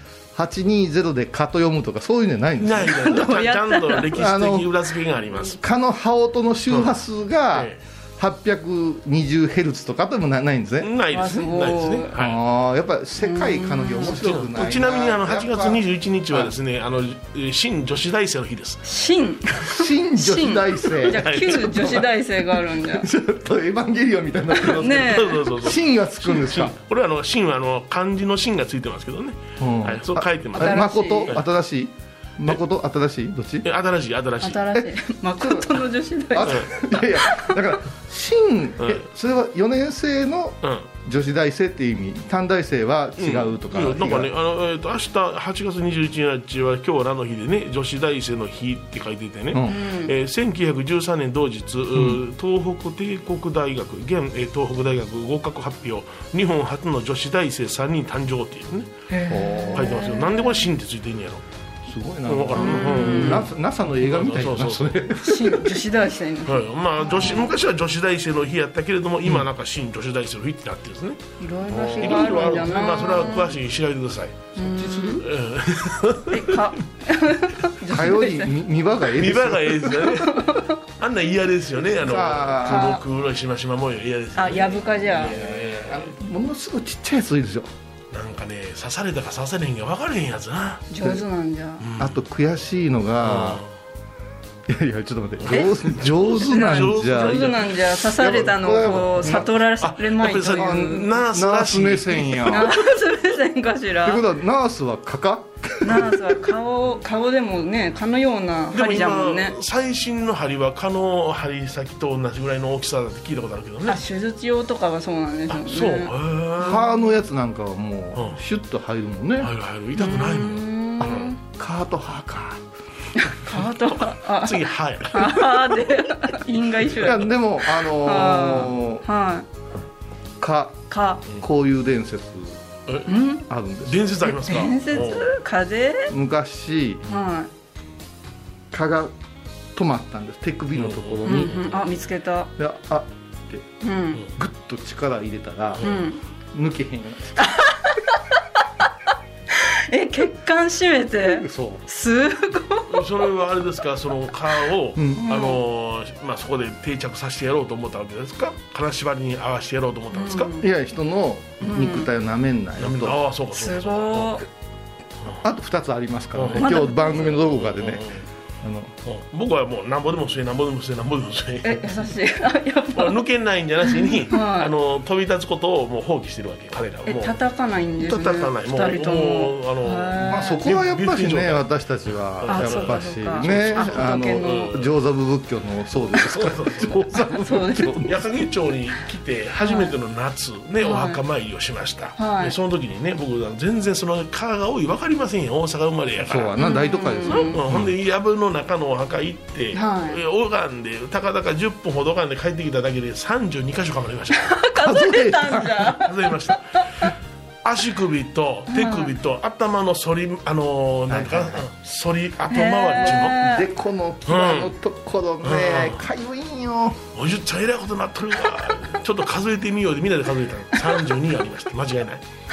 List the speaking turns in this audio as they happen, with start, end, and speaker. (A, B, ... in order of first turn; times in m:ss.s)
0:00.3-0:03.2 A
0:02.6-0:05.6 B
0:03.0-0:04.1 C
0:04.1-0:04.7 A
0:05.5-0:10.9 A
0:07.5-0:07.8 B
0:10.8-0:12.4 B
0:11.1-0:12.1 C
0:12.1-0:16.5 A
0:13.2-0:14.1 C
0:14.0-0:18.8 B
0:18.8-0:23.1 C
0:19.7-0:22.0 A
0:21.1-0:22.0 B
0:22.9-0:26.7 A
0:24.6-0:25.5 C
0:24.9-0:31.4 B
0:29.6-0:33.7 A
0:30.6-0:31.3 C
0:33.6-0:34.7 B
0:34.4-0:37.5 C
0:36.3-0:44.3 A
0:36.4-0:36.7 B
0:43.2-0:58.9 B
0:49.5-0:49.8 A
0:49.7-0:50.1 C
0:51.9-0:52.2 A
0:59.1-1:00.6 C
0:59.3-1:00.0 A
0:59.7-1:01.4 B
1:01.8-1:05.7 A
1:02.2-1:05.0 B
1:02.6-1:03.4 C
1:05.2-1:07.5 C
1:06.4-1:11.2 B
1:07.1-1:07.4 A
1:11.4-1:13.5 C
1:11.7-1:12.4 A
1:11.7-1:14.5 B
1:14.6-1:15.2 C
1:14.6-1:15.2 A
1:15.2-1:16.6 B
1:16.3-1:18.5 C
1:17.9-1:20.0 A
1:19.2-1:26.1 B
1:20.0-1:20.8 C
1:22.0-1:23.0 A
1:22.6-1:23.0 C
1:24.3-1:25.3 C
1:25.2-1:27.7 A
1:28.1-1:30.9 B
1:30.9-1:31.8 C
1:31.8-1:32.2 B
1:32.0-1:33.6 A
1:33.2-1:33.7 B
1:34.7-1:39.5 A
1:35.4-1:42.7 B
1:36.4-1:41.1 C
1:40.5-1:42.7 A
1:42.5-1:44.2 C
1:44.0-1:46.4 A
1:45.8-1:49.6 C
1:48.7-1:54.0 B
1:53.9-1:56.9 C
1:55.5-1:56.8 B
1:56.6-1:59.5 A
1:58.1-1:58.4 B
1:59.4-2:01.3 B
2:00.0-2:01.4 C
2:01.0-2:02.6 A
2:03.2-2:09.4 C
2:04.1-2:05.8 B
2:07.0-2:09.0 A
2:10.4-2:10.8 A
2:10.9-2:11.2 C
2:11.4-2:12.6 A
2:13.1-2:13.4 C
2:13.5-2:14.0 A
2:13.8-2:15.3 B
2:14.2-2:16.1 C
2:16.1-2:17.0 A
2:17.1-2:17.5 C
2:18.7-2:19.1 A
2:19.7-2:21.7 A
2:20.7-2:21.8 B
2:21.2-2:22.5 C
2:22.6-2:23.6 A
2:23.8-2:24.2 C
2:24.4-2:25.9 A
2:25.8-2:26.0 B
2:25.8-2:26.2 C
2:26.5-2:27.5 A
2:27.4-2:28.2 C
2:29.9-2:33.0 C
2:31.2-2:31.8 A
2:32.9-2:40.5 B
2:35.0-2:35.2 A
2:35.2-2:35.6 C
2:40.1-2:40.7 C
2:40.6-2:43.2 A
2:41.6-2:42.1 C
2:42.8-2:44.4 B
2:43.5-2:44.4 C
2:45.4-2:48.1 A
2:46.3-2:48.2 B
2:46.6-2:47.3 C
2:48.6-2:48.9 A
2:49.0-2:51.9 B
2:51.6-2:53.2 C
2:52.9-2:57.4 B
2:53.8-2:54.7 C
2:57.0-3:00.6 C
2:58.0-3:04.9 B
3:00.3-3:08.2 A
3:02.5-3:04.7 C
3:06.2-3:07.1 B
3:07.4-3:08.0 C
3:08.0-3:16.5 B
3:09.6-3:09.9 C
3:10.8-3:11.2 C
3:12.2-3:12.5 C
3:16.2-3:17.9 A
3:16.6-3:17.6 C
3:17.2-3:24.5 B
3:19.7-3:20.2 C
3:24.3-3:26.8 C
3:24.8-3:26.0 A
3:26.0-3:27.1 B
3:27.6-3:33.5 B
3:28.7-3:29.1 C
3:31.1-3:31.7 A
3:32.5-3:33.6 C
3:33.1-3:37.0 A
3:34.3-3:34.7 B
3:35.4-3:36.0 B
3:37.1-3:42.2 B